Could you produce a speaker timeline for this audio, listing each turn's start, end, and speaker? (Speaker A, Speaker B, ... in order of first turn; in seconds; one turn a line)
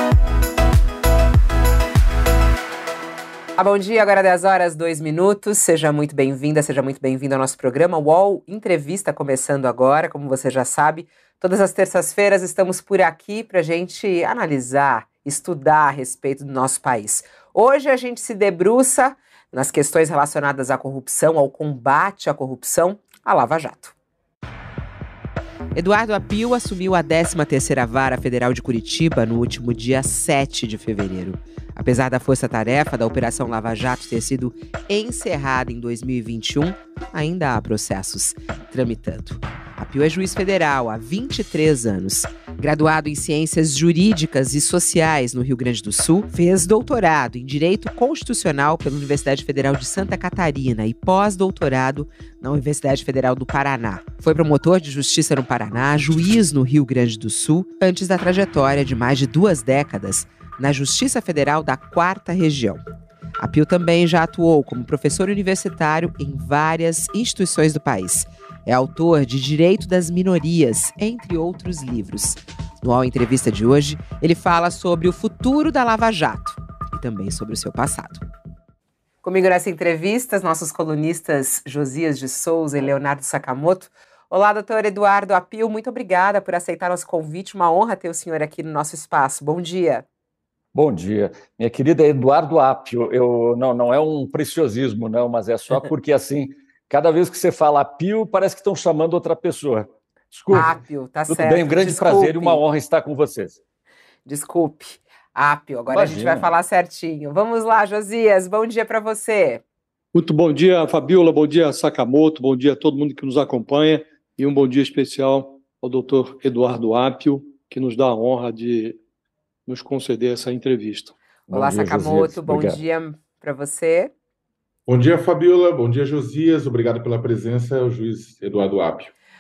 Speaker A: 3.6-23.9
Speaker A: 25.8-62.8
Speaker A: 63.4-78.2
Speaker A: 79.2-90.0
Speaker B: 90.7-100.8
Speaker A: 100.5-102.6
Speaker B: 101.3-103.6
Speaker A: 104.3-109.6
Speaker B: 105.9-106.5
Speaker C: 110.1-119.0
Speaker C: 119.7-121.2
Speaker B: 121.5-122.8
Speaker A: 121.5-124.1
Speaker D: 124.9-129.1